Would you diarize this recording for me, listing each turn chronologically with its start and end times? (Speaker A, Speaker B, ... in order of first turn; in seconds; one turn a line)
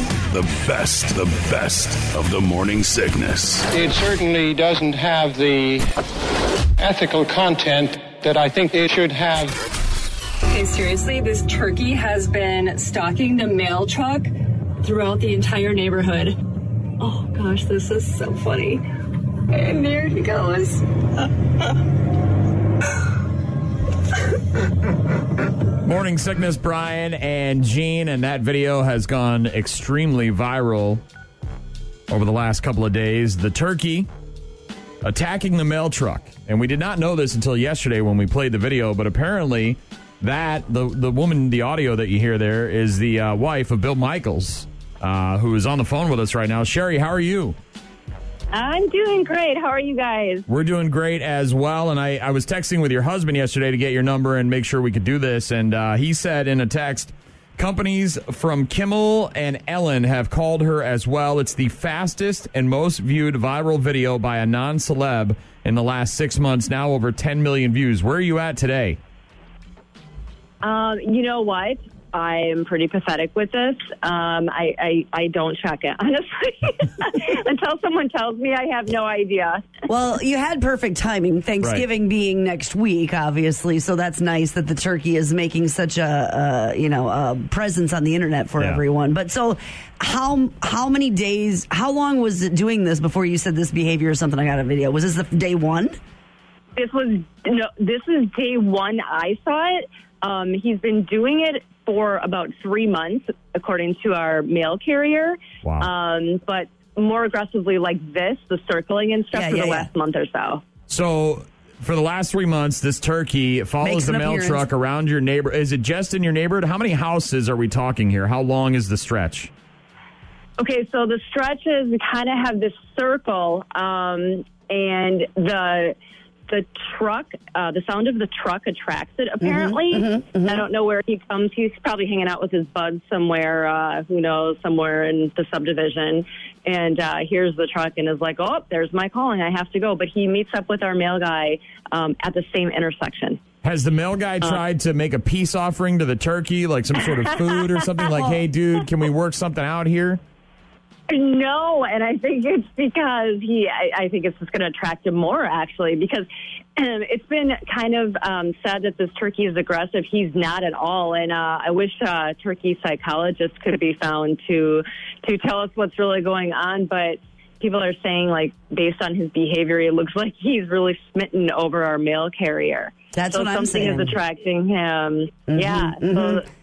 Speaker A: 0.3-3.7
Speaker B: 3.7-5.9
Speaker B: 6.8-9.6
Speaker C: 10.5-14.3
Speaker C: 14.8-16.4
Speaker C: 17.0-18.9
Speaker C: 19.5-21.3
Speaker D: 25.8-31.0
Speaker D: 32.1-34.1
Speaker D: 35.0-47.6
Speaker E: 48.5-50.5
Speaker D: 50.5-69.0
Speaker E: 70.6-79.7
Speaker F: 79.9-96.0
Speaker D: 81.6-81.9
Speaker E: 96.8-110.6
Speaker D: 105.6-105.9
Speaker F: 109.3-109.9
Speaker D: 110.9-119.5
Speaker F: 113.8-114.7
Speaker E: 120.6-126.0
Speaker E: 126.5-143.4
Speaker F: 129.4-130.6
Speaker D: 143.6-150.2
Speaker E: 147.0-148.4
Speaker E: 151.1-176.5
Speaker F: 173.1-174.1
Speaker F: 175.5-176.4